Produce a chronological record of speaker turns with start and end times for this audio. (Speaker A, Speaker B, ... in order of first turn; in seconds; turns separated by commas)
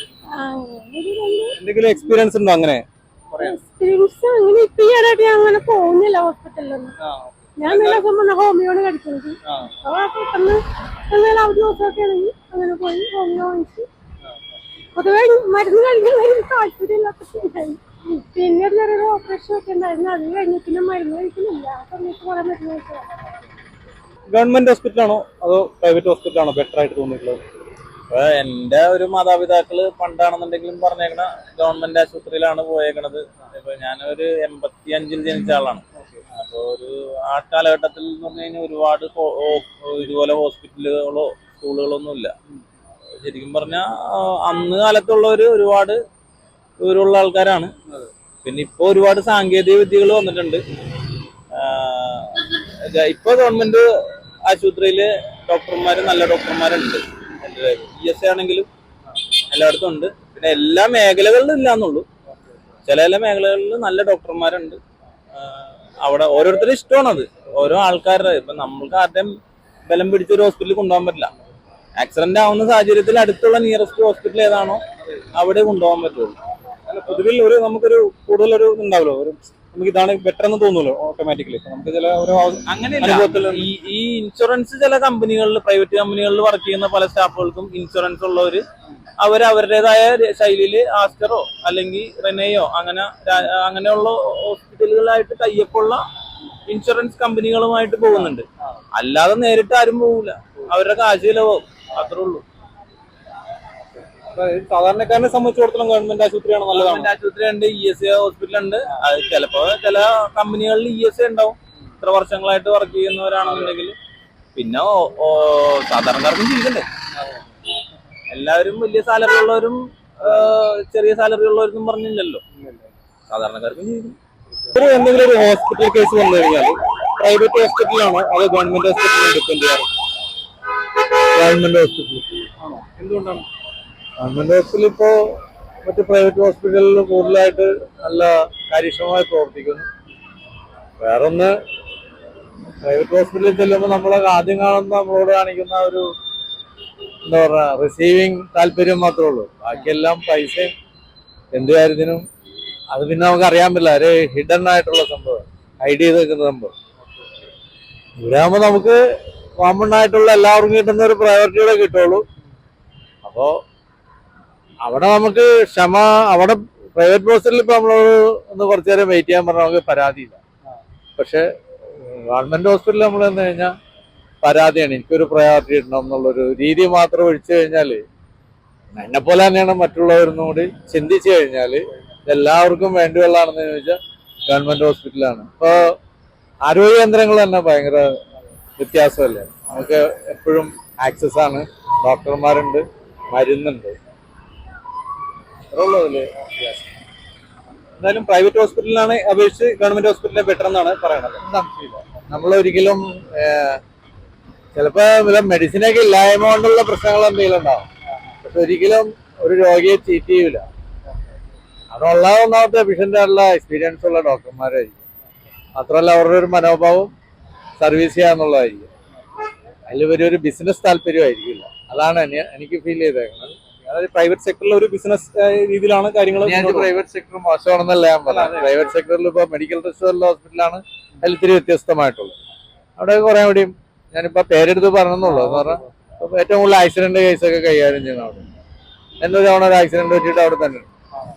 Speaker A: 0.3-2.2, Speaker B: 1.6-3.5, Speaker A: 3.3-7.0, Speaker B: 7.0-8.0, Speaker A: 7.6-13.9, Speaker A: 15.0-23.1, Speaker B: 24.3-27.4, Speaker C: 28.1-35.8, Speaker C: 36.4-42.4, Speaker C: 43.2-46.0, Speaker C: 46.8-47.7, Speaker C: 48.4-50.6, Speaker C: 51.5-53.9, Speaker C: 54.5-58.7, Speaker C: 59.5-62.0, Speaker C: 62.9-64.8, Speaker C: 65.4-69.3, Speaker C: 69.9-71.3, Speaker C: 72.0-74.8, Speaker C: 75.4-76.4, Speaker B: 76.9-83.7, Speaker C: 82.7-88.6, Speaker C: 89.2-96.0, Speaker C: 96.7-102.4, Speaker B: 98.1-98.8, Speaker B: 104.3-107.1, Speaker C: 106.7-113.9, Speaker B: 113.5-113.8, Speaker C: 114.5-116.9, Speaker C: 118.3-122.4, Speaker B: 122.5-122.9, Speaker C: 123.3-124.1, Speaker B: 124.7-129.9, Speaker D: 131.3-132.3, Speaker B: 132.6-133.5, Speaker D: 134.2-139.9, Speaker D: 141.0-141.5, Speaker D: 142.8-146.0, Speaker D: 147.2-150.7, Speaker D: 151.5-152.2, Speaker D: 152.9-156.7, Speaker D: 158.2-159.0, Speaker D: 159.6-162.2, Speaker D: 163.2-163.5, Speaker D: 164.8-170.4, Speaker D: 171.2-173.7, Speaker D: 174.4-178.0, Speaker D: 178.9-186.0, Speaker D: 186.6-188.1, Speaker D: 188.8-194.0, Speaker D: 195.7-196.8, Speaker B: 198.0-201.4, Speaker D: 201.4-203.8, Speaker D: 204.7-207.9, Speaker D: 208.4-210.7, Speaker D: 211.9-215.0, Speaker D: 215.8-217.1, Speaker D: 217.8-218.9, Speaker D: 219.9-223.5, Speaker B: 223.9-226.9, Speaker D: 226.4-232.3, Speaker B: 228.3-228.9, Speaker D: 233.0-238.5, Speaker B: 235.2-235.8, Speaker D: 239.2-240.9